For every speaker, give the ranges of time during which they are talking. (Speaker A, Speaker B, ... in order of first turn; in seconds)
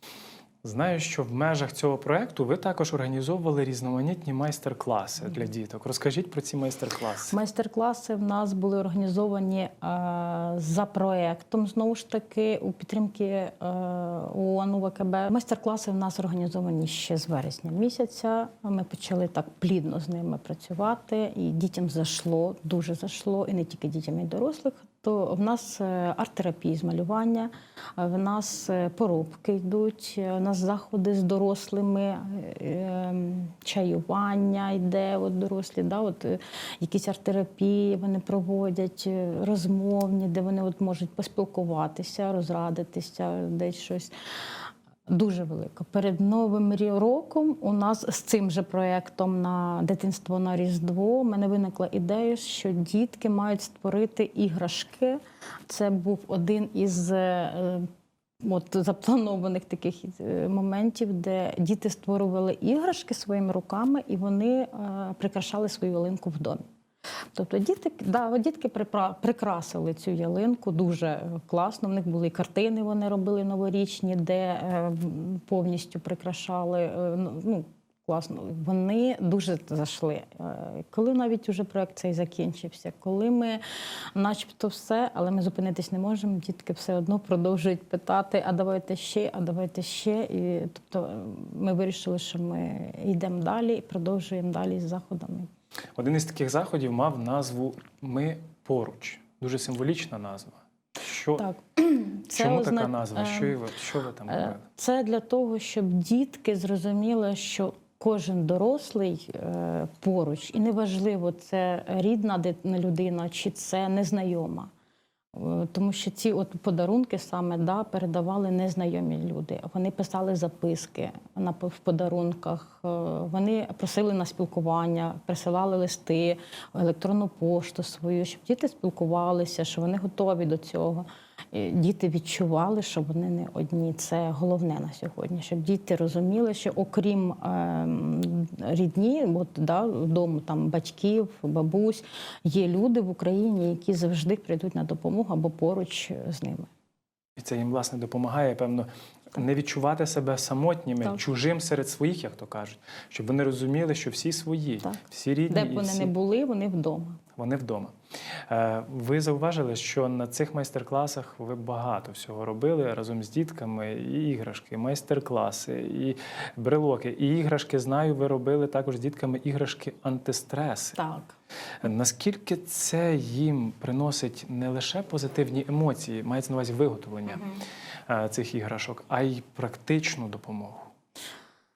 Speaker A: 0.6-7.4, 96.0-101.5, 102.3-104.6, 147.4-156.1, 157.4-171.0, 171.8-177.5, 178.1-180.8
Speaker B: 7.3-44.1, 45.1-57.9, 58.4-66.6, 67.3-83.6, 84.2-95.5, 101.4-103.6, 104.3-114.7, 115.3-146.7, 154.8-157.2, 171.0-171.4